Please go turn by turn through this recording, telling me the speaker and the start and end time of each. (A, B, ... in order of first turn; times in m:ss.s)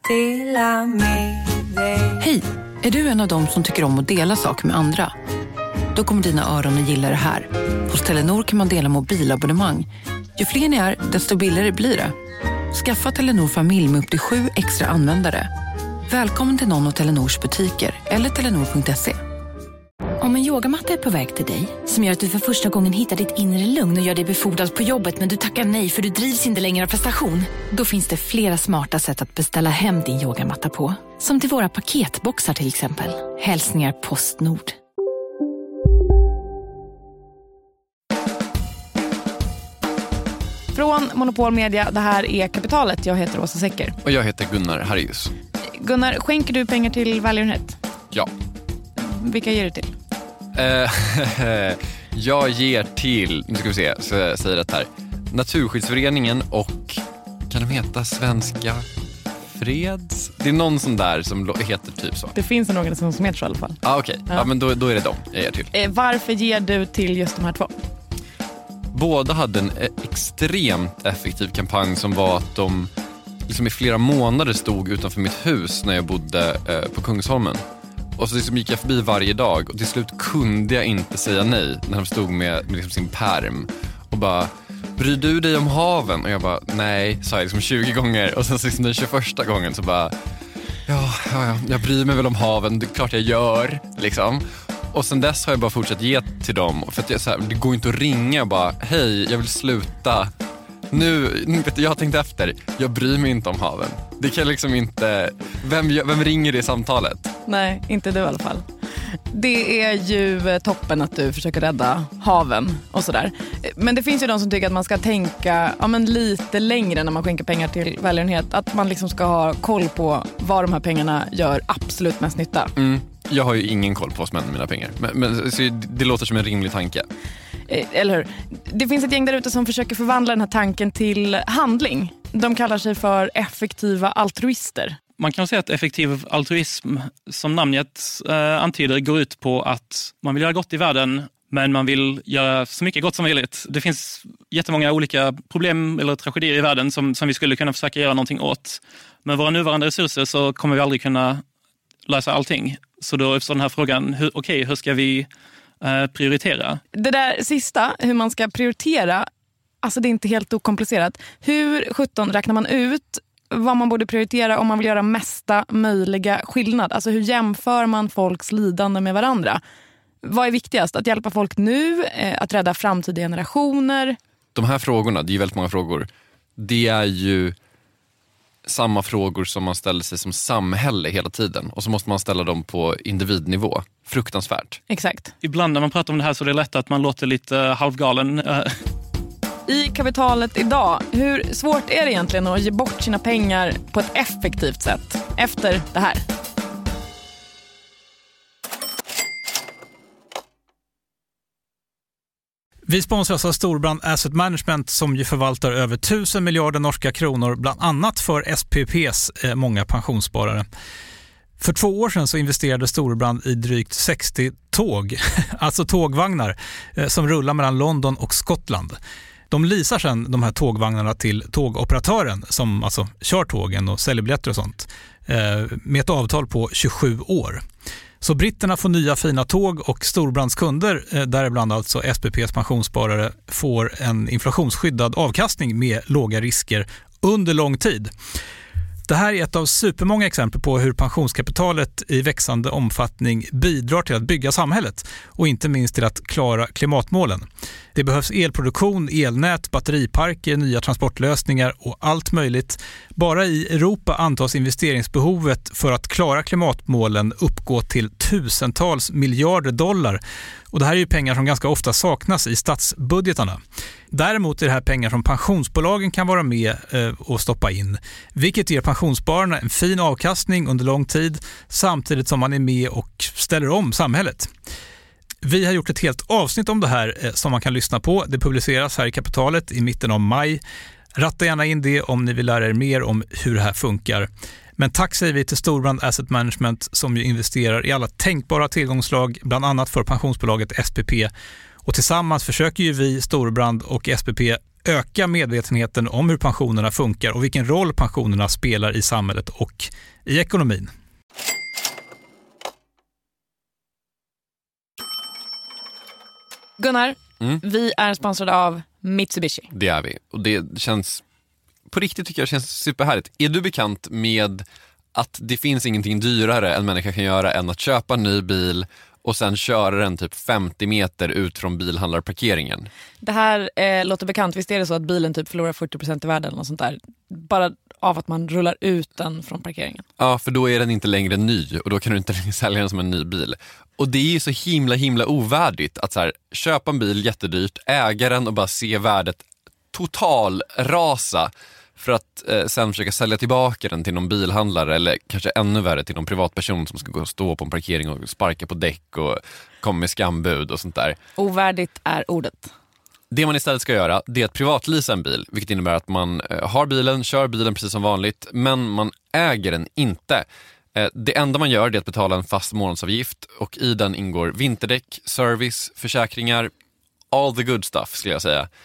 0:00.1-0:00.8 A
0:02.2-0:05.1 A
0:05.9-0:12.1 A
0:12.7-0:15.5 A
0:16.1-0:19.1 A
0:20.2-0:34.8 B
0:40.7-0:44.0 C
0:44.0-0:45.3 D
0:45.7-0:47.8 C
0:49.0-0:49.9 C
0:50.5-0:58.8 D
0:59.5-1:02.3 D
1:02.3-1:04.5 C
1:03.8-1:05.7 D
1:05.7-1:07.7 C
1:08.9-1:12.9 D
1:13.5-1:17.6 D
1:18.2-1:30.1 D
1:30.8-1:40.3 D
1:40.9-1:47.3 D
1:47.4-2:02.7 C
2:02.8-2:07.1 D
2:07.7-2:15.0 C
2:15.2-2:31.4 E
2:32.0-2:35.3 E
2:35.8-2:36.8 E
2:36.9-2:39.3 C
2:39.8-2:49.6 C
2:50.2-2:54.2 C
2:54.5-2:57.6 D
2:58.6-3:04.8 D
3:04.9-3:05.3 C
3:05.4-3:08.8 E
3:09.7-3:16.2 C
3:22.9-3:30.6 F
3:31.6-3:39.0 F
3:39.5-3:47.6 F
3:48.2-3:58.1 F
3:59.1-4:20.2 F
4:20.7-4:34.5 F
4:35.4-4:40.6 F
4:41.2-4:51.3 F
4:51.8-5:00.9 F
5:06.8-5:09.7 C
5:09.7-5:11.2 D
5:11.9-5:22.9 D
5:23.2-5:30.0 C
5:30.2-5:51.2 D
5:51.4-5:52.7 C
5:53.3-6:06.7 D
6:07.3-6:08.7 D